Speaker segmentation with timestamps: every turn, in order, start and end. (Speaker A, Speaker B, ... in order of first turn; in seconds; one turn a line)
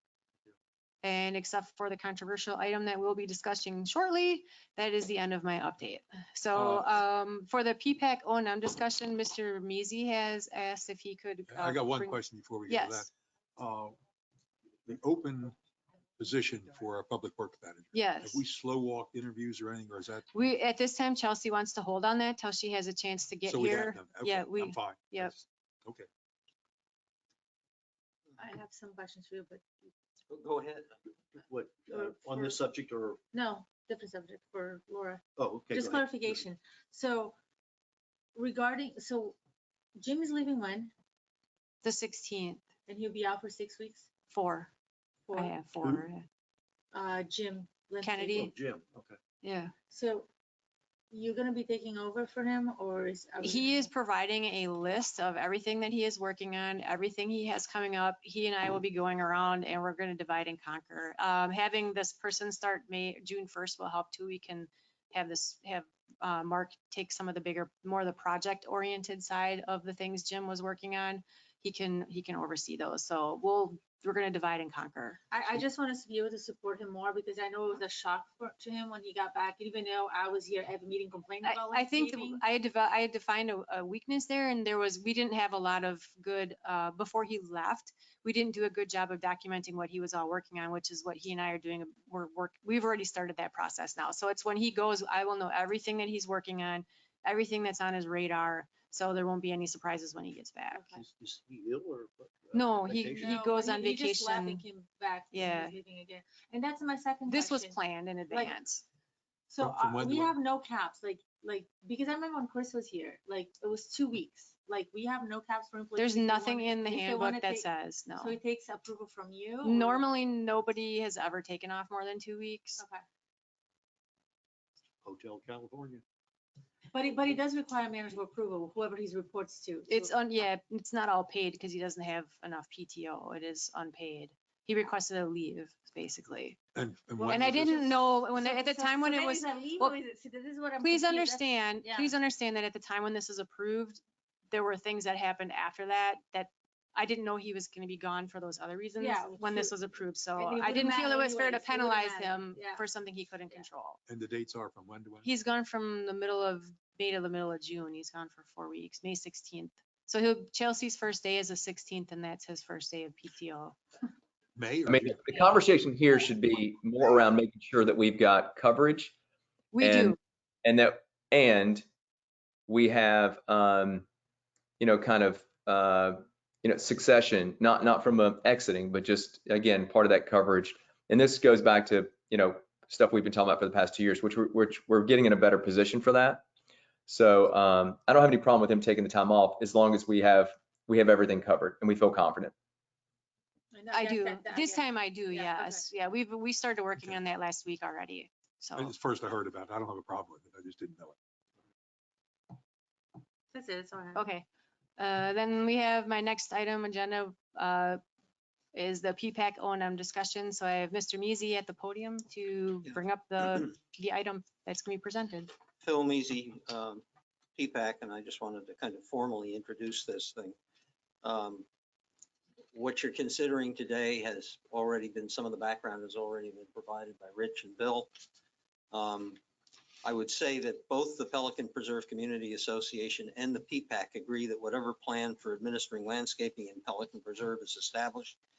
Speaker A: 1.0-13.1
Speaker B: 6.5-6.9
Speaker B: 11.5-14.0
Speaker B: 14.8-15.6
Speaker B: 16.2-20.3
Speaker A: 17.9-18.4
Speaker A: 20.3-25.3
Speaker B: 23.5-26.1
Speaker C: 28.4-29.6
Speaker D: 30.3-30.9
Speaker E: 31.4-33.2
Speaker C: 31.9-32.6
Speaker C: 33.3-37.4
Speaker E: 35.4-36.5
Speaker C: 38.4-39.4
Speaker C: 40.0-40.9
Speaker A: 41.8-42.6
Speaker C: 42.9-44.1
Speaker A: 44.3-44.7
Speaker C: 45.3-45.5
Speaker A: 45.3-46.2
Speaker C: 46.9-48.5
Speaker A: 48.0-48.5
Speaker E: 48.4-49.2
Speaker A: 49.4-49.7
Speaker C: 49.9-50.3
Speaker C: 51.1-53.9
Speaker A: 53.4-75.2
Speaker C: 75.3-82.4
Speaker A: 81.4-100.9
Speaker C: 100.7-101.0
Speaker E: 100.9-103.4
Speaker A: 102.5-104.6
Speaker C: 103.0-108.5
Speaker A: 105.3-105.7
Speaker A: 107.3-108.8
Speaker C: 109.5-120.0
Speaker B: 109.6-110.3
Speaker A: 116.0-118.3
Speaker A: 119.6-122.8
Speaker C: 122.8-123.0
Speaker E: 125.0-126.0
Speaker C: 126.9-130.1
Speaker A: 129.9-136.6
Speaker B: 136.7-137.9
Speaker A: 137.2-139.9
Speaker C: 137.4-142.1
Speaker A: 140.8-154.0
Speaker C: 149.0-149.8
Speaker C: 150.3-152.8
Speaker B: 154.1-155.2
Speaker A: 155.2-163.8
Speaker B: 164.6-165.2
Speaker F: 164.8-169.1
Speaker A: 169.7-170.2
Speaker F: 169.8-171.8
Speaker F: 172.7-174.1
Speaker F: 174.8-186.4
Speaker F: 187.1-192.5
Speaker C: 193.7-195.9
Speaker A: 193.9-198.9
Speaker B: 198.8-201.2
Speaker C: 203.5-204.2
Speaker A: 204.1-204.4
Speaker A: 205.0-208.0
Speaker A: 208.7-215.5
Speaker D: 215.8-217.0
Speaker D: 217.6-220.6
Speaker D: 221.2-221.6
Speaker D: 222.7-228.1
Speaker D: 228.9-229.4
Speaker D: 230.0-238.4